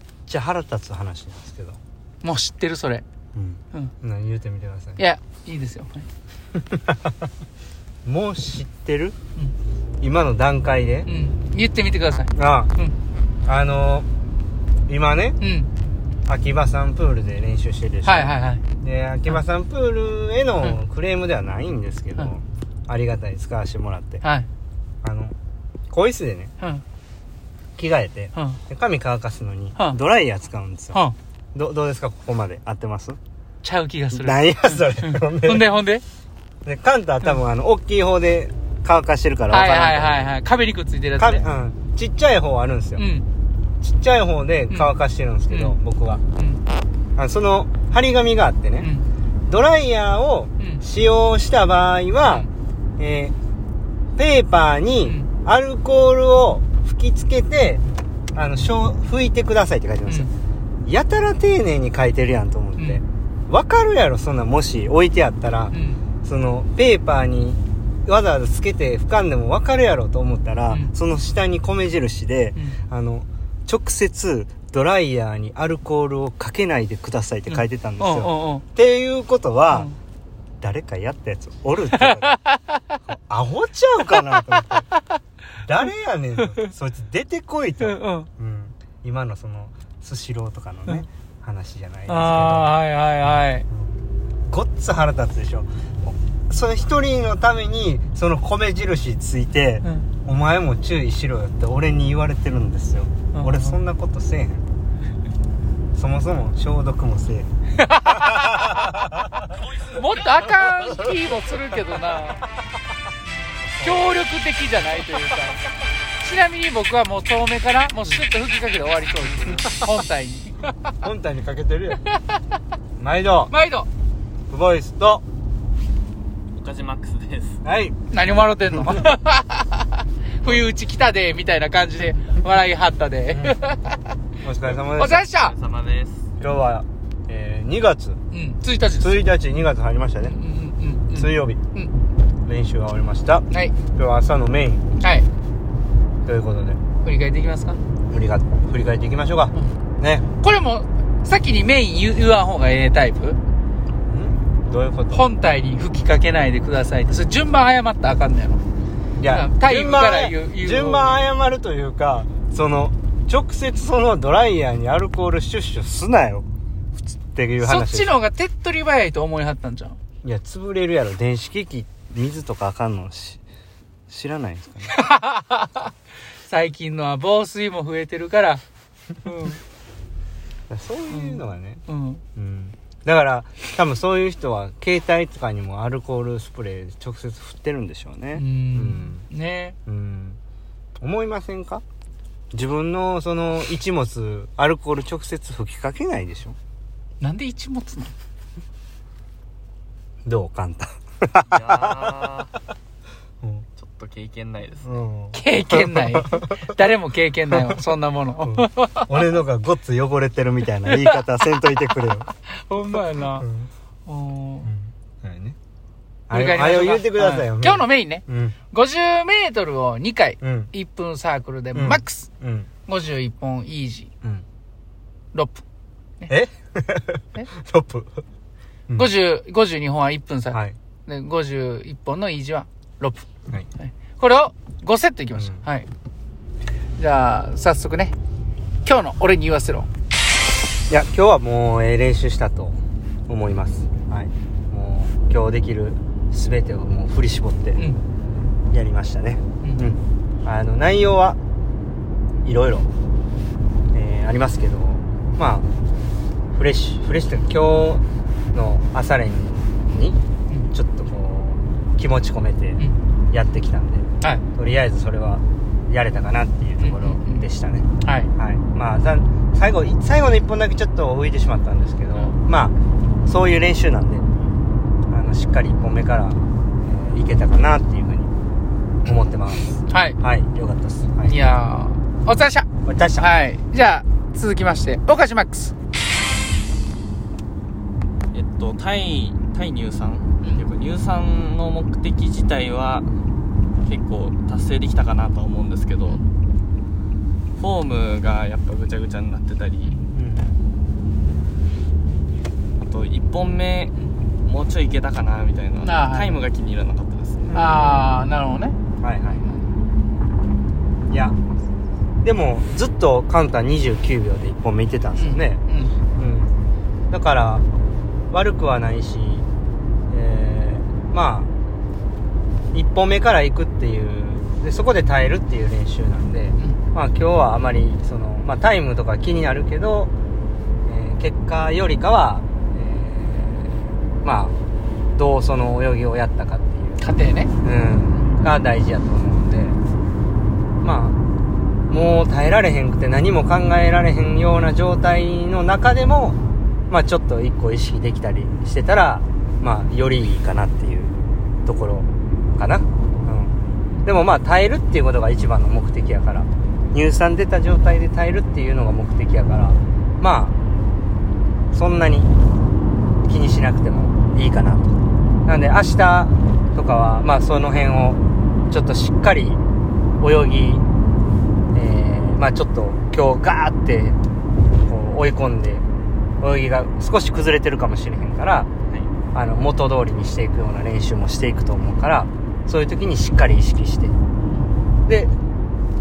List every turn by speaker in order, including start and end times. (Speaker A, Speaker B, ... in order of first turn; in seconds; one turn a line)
Speaker A: 0.3-1.8
Speaker B: 2.2-3.0
Speaker A: 3.3-5.0
Speaker B: 5.0-6.1
Speaker A: 6.5-7.1
Speaker A: 8.0-9.2
Speaker A: 10.0-11.1
Speaker B: 11.0-12.9
Speaker A: 12.3-12.7
Speaker A: 13.4-14.1
Speaker A: 14.9-15.4
Speaker B: 15.4-15.7
Speaker A: 16.2-24.2
Speaker B: 18.0-18.6
Speaker B: 24.2-24.5
Speaker A: 25.0-25.3
Speaker A: 25.9-26.5
Speaker A: 27.8-31.0
Speaker A: 31.5-33.2
Speaker B: 33.6-36.0
Speaker A: 34.1-35.7
Speaker A: 36.6-40.3
Speaker B: 39.5-41.4
Speaker A: 41.2-43.0
Speaker B: 43.0-43.2
Speaker A: 43.8-46.2
Speaker B: 45.5-45.8
Speaker B: 46.4-46.6
Speaker A: 47.1-48.9
Speaker A: 49.5-53.3
Speaker A: 54.1-57.8
Speaker A: 58.3-60.3
Speaker A: 60.8-79.9
Speaker B: 65.7-66.0
Speaker B: 70.7-70.9
Speaker B: 78.0-78.6
Speaker A: 80.6-82.4
Speaker B: 82.0-82.8
Speaker A: 83.0-84.9
Speaker A: 85.6-92.8
Speaker B: 87.8-88.3
Speaker B: 92.1-93.7
Speaker A: 93.7-104.6
Speaker B: 103.3-103.8
Speaker A: 105.9-107.5
Speaker B: 107.8-109.0
Speaker A: 108.0-109.2
Speaker B: 109.8-112.5
Speaker A: 113.8-114.0
Speaker B: 113.8-115.6
Speaker B: 116.2-120.7
Speaker A: 121.0-122.0
Speaker B: 122.1-122.4
Speaker A: 123.0-123.5
Speaker B: 123.5-123.9
Speaker A: 124.5-125.2
Speaker C: 126.6-127.6
Speaker A: 127.6-128.0
Speaker B: 128.1-134.0
Speaker A: 128.7-129.1
Speaker A: 133.3-133.6
Speaker A: 134.4-135.2
Speaker B: 134.9-135.5
Speaker C: 135.2-136.3
Speaker A: 136.4-138.2
Speaker B: 138.3-139.2
Speaker A: 138.9-140.4
Speaker B: 140.2-141.9
Speaker A: 141.1-141.6
Speaker A: 142.4-144.8
Speaker B: 145.0-145.3
Speaker A: 146.2-146.8
Speaker B: 147.0-147.8
Speaker A: 148.1-150.3
Speaker B: 150.3-153.4
Speaker A: 154.1-155.3
Speaker B: 155.1-158.6
Speaker A: 159.2-166.4
Speaker B: 159.3-161.2
Speaker A: 167.3-168.2
Speaker B: 167.6-170.0
Speaker A: 170.2-173.4
Speaker A: 174.1-175.0
Speaker B: 174.9-175.9
Speaker B: 176.4-178.6
Speaker B: 179.2-179.6
Speaker A: 180.7-181.8
Speaker B: 181.1-182.2
Speaker A: 182.3-189.2
Speaker B: 188.3-189.8
Speaker A: 189.8-190.4
Speaker A: 191.0-191.8
Speaker A: 192.5-196.6
Speaker B: 197.2-198.1
Speaker A: 200.2-202.2
Speaker C: 201.5-202.5
Speaker C: 203.8-205.0
Speaker A: 204.8-206.7
Speaker B: 205.3-209.2
Speaker A: 208.4-212.3
Speaker B: 210.9-211.3
Speaker B: 212.4-213.5
Speaker A: 213.3-213.7
Speaker B: 214.1-214.7
Speaker A: 214.6-215.6
Speaker A: 216.3-218.6
Speaker B: 216.3-222.3
Speaker A: 220.4-220.7
Speaker A: 221.7-222.7
Speaker B: 222.8-224.1
Speaker B: 225.3-225.6
Speaker A: 226.3-228.2
Speaker B: 228.9-233.3
Speaker B: 233.8-235.9
Speaker A: 235.3-235.6
Speaker B: 237.0-238.2
Speaker B: 238.8-239.9
Speaker A: 240.9-247.8
Speaker A: 248.7-251.4
Speaker A: 252.4-252.9
Speaker A: 253.9-255.7
Speaker A: 256.5-258.0
Speaker A: 258.5-260.2
Speaker A: 260.7-272.7
Speaker B: 266.8-267.5
Speaker B: 268.0-268.3
Speaker A: 273.2-274.2
Speaker A: 275.1-278.3
Speaker A: 279.0-281.4
Speaker B: 279.9-280.2
Speaker B: 281.2-285.7
Speaker A: 282.8-283.3
Speaker C: 288.3-293.1
Speaker C: 293.8-296.2
Speaker C: 297.6-299.9
Speaker B: 299.8-300.1
Speaker A: 300.1-300.6
Speaker C: 302.8-307.5
Speaker B: 305.8-306.4
Speaker A: 307.5-308.1
Speaker B: 307.5-308.8
Speaker A: 309.0-309.5
Speaker A: 311.1-311.4
Speaker A: 312.2-315.6
Speaker B: 315.1-315.9
Speaker A: 316.1-316.5
Speaker A: 317.1-317.6
Speaker A: 318.3-319.5
Speaker A: 320.1-321.5
Speaker A: 322.7-330.1
Speaker A: 330.8-334.5
Speaker A: 335.1-337.1
Speaker B: 337.0-337.5
Speaker A: 337.6-339.8
Speaker A: 340.8-341.2
Speaker A: 341.9-346.4
Speaker A: 346.9-360.5
Speaker A: 361.7-362.3
Speaker A: 363.2-369.6
Speaker A: 370.2-370.8
Speaker A: 371.7-374.2
Speaker A: 374.8-375.9
Speaker A: 376.4-378.7
Speaker A: 379.3-384.1
Speaker A: 385.1-385.3